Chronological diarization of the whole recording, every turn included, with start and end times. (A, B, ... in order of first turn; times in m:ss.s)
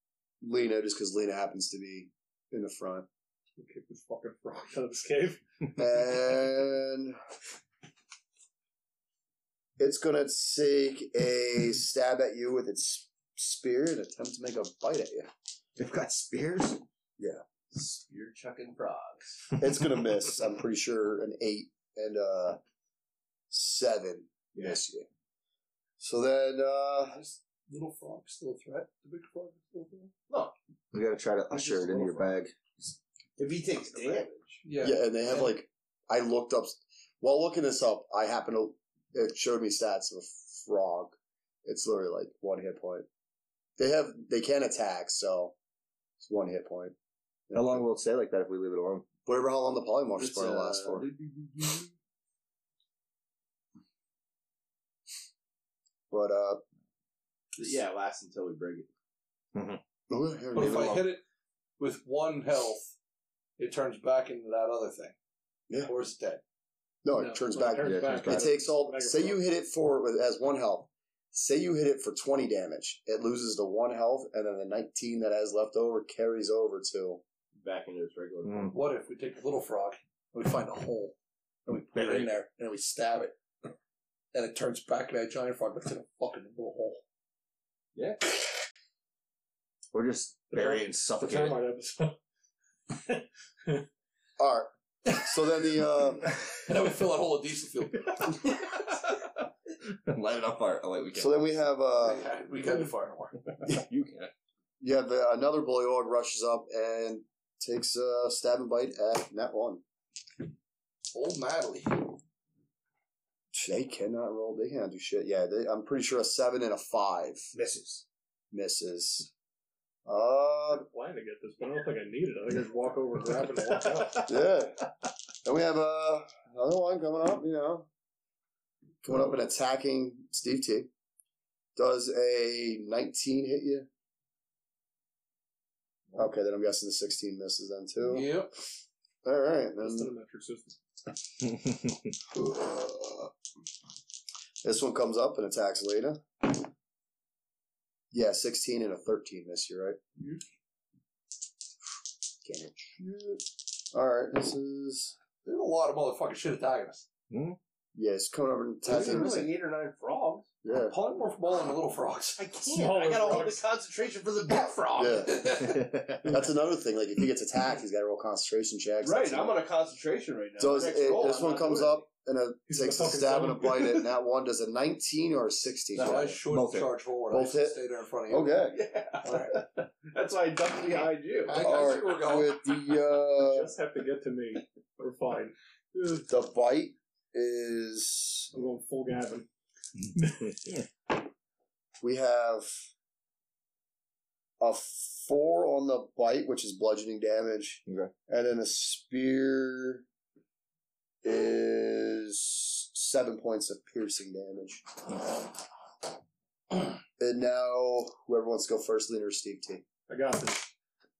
0:00.4-0:03.0 A
0:03.6-0:05.4 B
0:05.8-0:07.2 A
0:09.8-0:15.3 A
0:15.8-0:16.8 C
0:17.2-0:17.4 A
0:17.7-0:19.5 D
0:19.6-0:22.6 A
0:23.5-0:25.0 A
0:26.0-0:27.2 A
0:27.0-0:30.1 E
0:30.9-0:32.9 C
0:31.5-0:32.3 D
0:33.4-0:34.6 D
0:34.6-0:35.5 E
0:34.8-0:43.0 A
0:43.8-0:45.5 A
0:46.2-0:46.9 A
0:47.5-0:47.8 A
0:47.5-0:49.1 C
0:49.2-0:51.1 A
0:50.2-0:51.9 D
0:56.1-0:56.6 A
0:57.6-0:58.9 D
0:59.5-0:59.8 C
1:00.1-1:01.1 A
1:00.5-1:01.2 E
1:01.8-1:02.9 E
1:03.6-1:05.2 E
1:05.8-1:06.4 E
1:07.0-1:17.2 A
1:07.1-1:09.4 B
1:07.8-1:08.5 C
1:17.6-1:18.8 D
1:18.4-1:18.7 C
1:18.7-1:21.1 E
1:21.7-1:23.4 E
1:22.0-1:22.3 D
1:24.3-1:27.0 E
1:27.9-1:28.2 D
1:29.9-1:31.6 C
1:30.5-1:32.2 B
1:32.9-1:33.8 B
1:34.4-1:36.3 A
1:36.6-1:38.7 E
1:39.9-1:41.4 C
1:41.1-1:42.2 A
1:42.0-1:43.3 E
1:43.6-1:44.3 C
1:44.8-1:49.8 A
1:51.1-1:52.1 E
1:53.5-1:57.5 A
1:57.5-1:58.0 C
1:58.5-1:59.3 A
2:00.0-2:00.8 A
2:00.7-2:04.3 B
2:04.1-2:04.9 A
2:05.4-2:07.9 A
2:09.0-2:10.9 A
2:11.8-2:13.9 A
2:16.2-2:18.4 A
2:18.0-2:18.5 E
2:19.2-2:20.1 A
2:19.8-2:20.8 B
2:22.3-2:23.3 A
2:24.6-2:26.6 A
2:28.1-2:30.0 A
2:32.4-2:35.1 A
2:35.4-2:37.0 E
2:37.3-2:37.6 C
2:37.9-2:39.5 A
2:38.8-2:40.5 D
2:40.6-2:40.9 A
2:40.9-2:42.4 E
2:42.4-2:45.7 D
2:42.6-2:43.6 B
2:45.0-2:45.4 A
2:45.2-2:45.9 E
2:45.6-2:46.3 C
2:46.2-2:49.6 A
2:49.0-2:52.0 D
2:50.6-2:56.4 A
2:52.7-2:54.0 B
2:55.9-2:58.6 E
2:56.5-2:56.9 C
2:57.3-2:57.8 A
2:58.3-2:58.8 A
2:58.7-3:01.9 D
2:59.2-2:59.6 E
3:01.5-3:02.6 E
3:01.6-3:03.7 A
3:03.4-3:06.2 B
3:06.3-3:08.5 A
3:08.5-3:09.5 B
3:10.1-3:10.6 B
3:12.0-3:12.7 A
3:14.6-3:20.0 A
3:17.9-3:18.1 C
3:21.2-3:25.2 A
3:27.2-3:29.8 A
3:30.1-3:30.7 B